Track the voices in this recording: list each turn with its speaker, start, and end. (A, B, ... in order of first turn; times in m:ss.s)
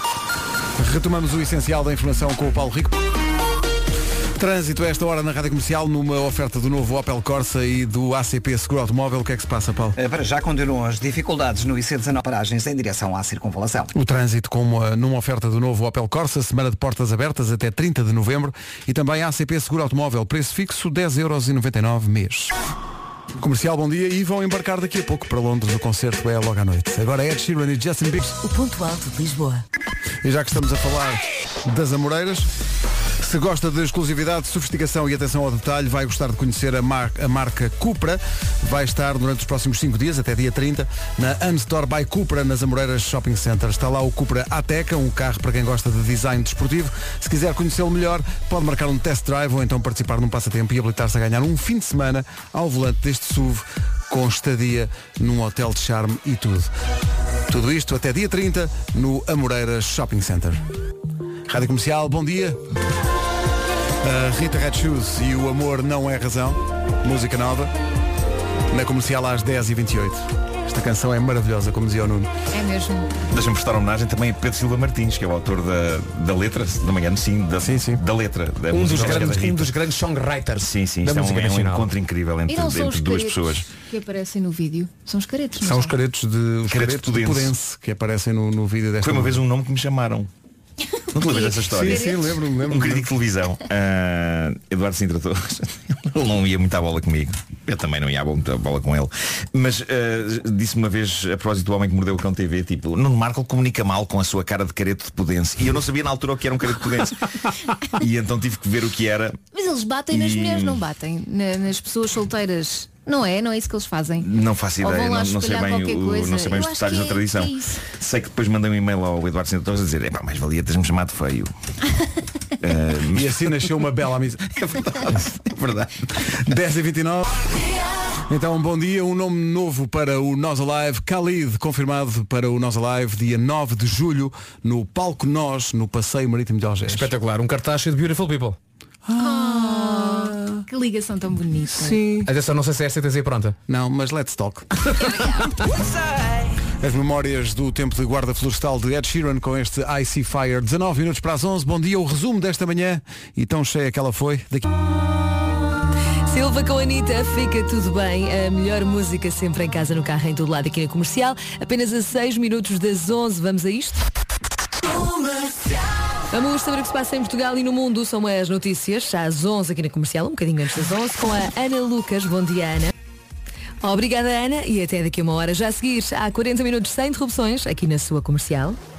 0:00.8-0:03.0 A
0:04.4-0:10.0 A
0:10.0-0:13.9 B
0:13.9-0:22.5 A
0:23.4-0:28.4 A
0:28.4-0:29.6 C
0:30.2-0:32.5 A
0:33.2-0:56.7 A
0:57.5-1:00.6 A
1:01.5-1:02.6 A
1:04.0-1:07.7 A
1:08.7-1:12.3 A
1:12.5-1:13.2 D
1:13.3-1:19.7 E
1:17.6-1:18.0 A
1:18.7-1:21.9 F
1:18.9-1:19.3 A
1:20.6-1:23.7 E
1:22.5-1:26.0 D
1:25.6-1:29.4 A
1:26.6-1:27.5 E
1:29.0-1:30.3 E
1:31.1-1:49.4 E
1:31.2-1:32.4 D
1:31.7-1:33.1 A
1:49.5-1:57.8 D
1:50.1-1:50.8 E
1:54.2-2:01.5 E
2:02.6-2:03.6 E
2:03.1-2:05.0 A
2:04.6-2:06.0 E
2:06.4-2:07.4 A
2:08.3-2:17.1 A
2:16.8-2:18.6 F
2:19.0-2:20.0 A
2:19.2-2:22.1 D
2:21.8-2:23.6 F
2:23.7-2:24.7 A
2:26.8-2:34.6 A
2:36.3-2:44.0 C
2:46.3-2:52.9 C
2:53.8-2:58.8 C